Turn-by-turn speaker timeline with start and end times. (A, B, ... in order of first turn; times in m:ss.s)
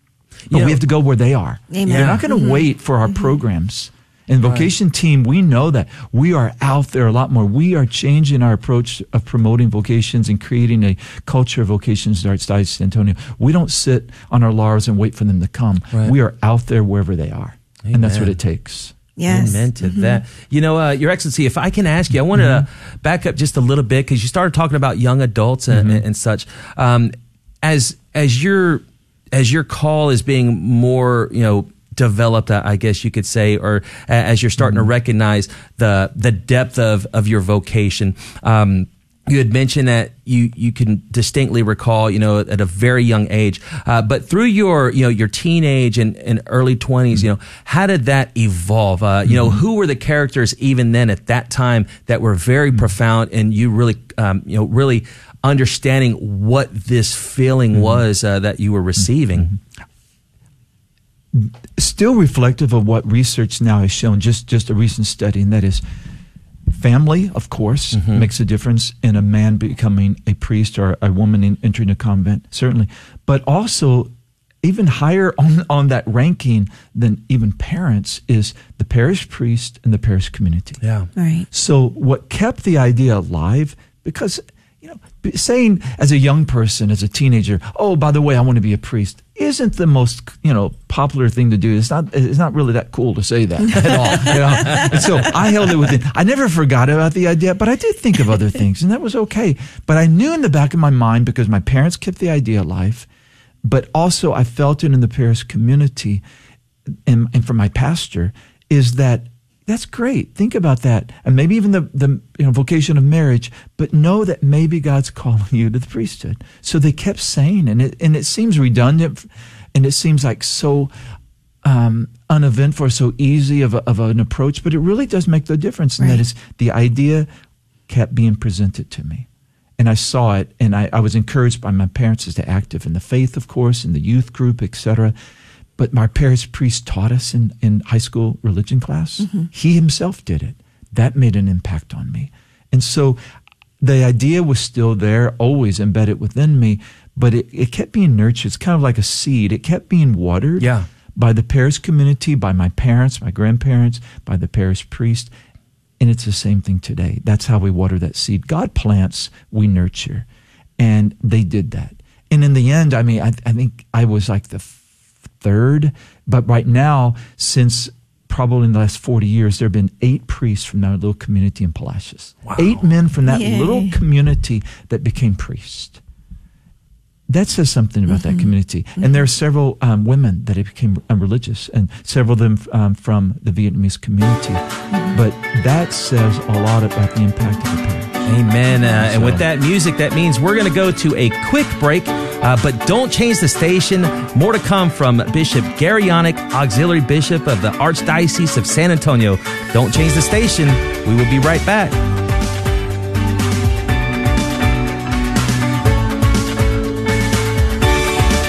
0:00.5-0:00.8 A
0:00.5-0:18.9 B
0:01.7-0:02.6 C
0:01.9-0:02.2 A
0:04.4-0:04.7 A
0:17.8-0:18.4 A
0:19.2-0:20.2 C
0:19.2-0:59.5 A
0:22.3-0:22.6 B
0:25.7-0:26.0 B
0:34.6-0:34.9 B
0:49.2-0:49.6 B
0:57.7-0:58.0 B
1:01.3-1:05.8 B
1:06.7-1:14.1 B
1:07.9-1:08.3 A
1:14.6-1:20.8 B
1:20.8-1:21.1 A
1:21.2-1:21.5 C
1:21.5-1:43.1 B
1:34.6-1:34.9 A
1:43.6-1:46.2 B
1:47.0-2:00.9 B
2:01.6-2:07.3 B
2:07.9-2:09.3 B
2:09.8-2:15.1 B
2:15.8-2:23.2 B
2:19.2-2:19.5 C
2:23.8-2:35.3 B
2:30.6-2:30.8 A
2:36.0-2:40.3 B
2:40.8-2:44.8 B
2:45.4-2:56.0 B
2:52.4-2:52.8 A
2:53.3-2:54.0 C
2:57.3-3:04.6 B
2:58.1-2:59.1 C
3:04.9-3:05.2 C
3:05.1-3:08.2 B
3:08.2-3:22.0 A
3:08.8-3:09.4 B